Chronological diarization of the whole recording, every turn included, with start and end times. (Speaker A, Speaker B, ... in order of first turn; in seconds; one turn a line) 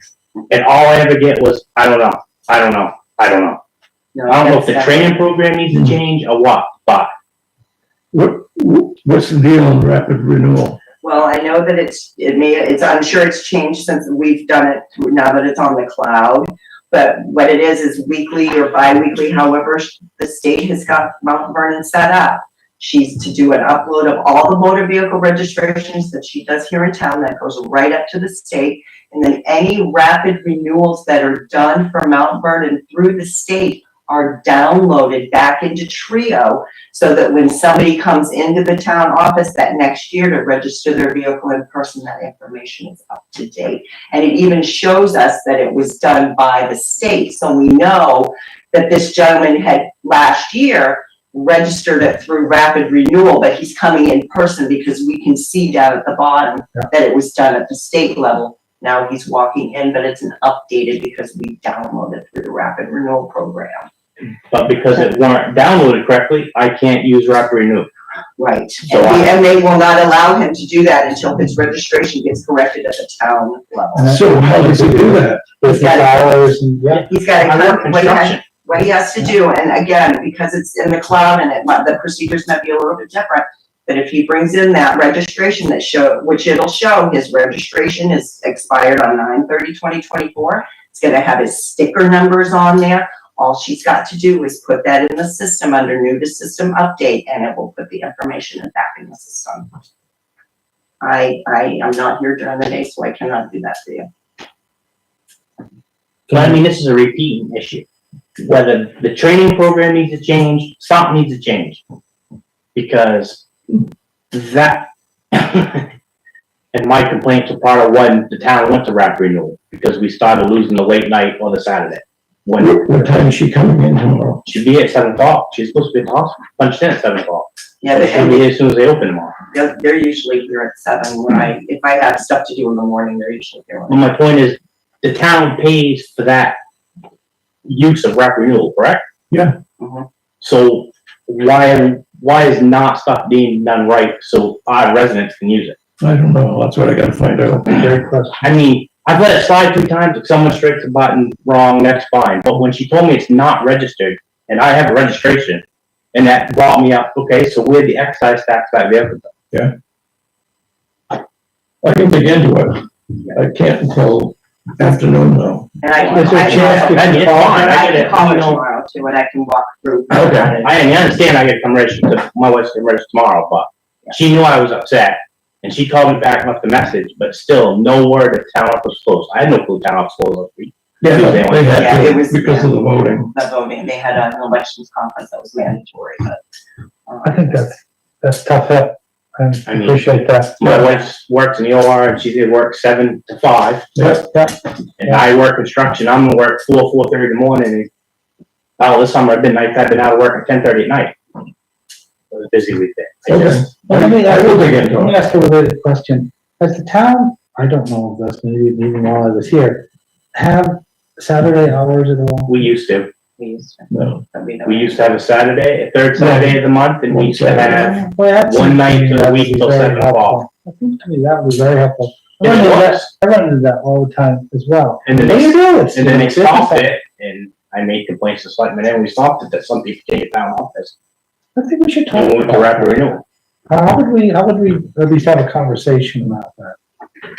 Speaker A: 0.5-3.6
Speaker B: 4.1-5.2
Speaker A: 4.3-7.1
Speaker C: 5.7-6.0
Speaker C: 8.1-10.8
Speaker B: 11.0-63.9
Speaker A: 64.5-67.9
Speaker B: 68.4-74.1
Speaker A: 68.9-69.3
Speaker D: 73.9-77.1
Speaker C: 74.0-75.5
Speaker B: 75.6-76.3
Speaker A: 76.9-78.4
Speaker B: 77.1-99.7
Speaker B: 101.0-104.1
Speaker A: 106.3-107.8
Speaker A: 108.4-111.8
Speaker A: 112.7-113.4
Speaker A: 114.3-115.9
Speaker A: 116.7-122.9
Speaker C: 122.6-124.4
Speaker A: 124.4-129.3
Speaker B: 127.8-128.4
Speaker B: 129.5-134.1
Speaker A: 133.9-136.6
Speaker A: 137.6-139.0
Speaker C: 139.3-139.6
Speaker B: 139.8-140.1
Speaker A: 140.4-145.8
Speaker C: 146.0-147.9
Speaker D: 147.6-148.4
Speaker A: 147.7-159.3
Speaker C: 161.8-165.7
Speaker B: 165.8-170.7
Speaker D: 166.1-167.8
Speaker A: 166.2-168.6
Speaker C: 170.1-170.5
Speaker A: 170.6-182.0
Speaker C: 181.0-183.3
Speaker B: 181.7-186.4
Speaker B: 187.1-187.8
Speaker D: 187.2-190.6
Speaker A: 189.7-193.9
Speaker C: 190.6-190.9
Speaker C: 193.9-194.2
Speaker D: 194.1-195.2
Speaker A: 195.0-197.9
Speaker A: 198.8-201.1
Speaker A: 202.3-203.7
Speaker C: 203.3-205.2
Speaker D: 203.9-212.5
Speaker A: 212.5-213.1
Speaker B: 213.4-214.9
Speaker C: 213.9-214.2
Speaker A: 214.6-220.4
Speaker D: 216.2-216.5
Speaker C: 217.1-218.0
Speaker D: 217.9-226.9
Speaker A: 222.4-223.1
Speaker A: 225.0-230.9
Speaker D: 231.6-233.1
Speaker A: 232.1-233.2
Speaker D: 233.7-236.8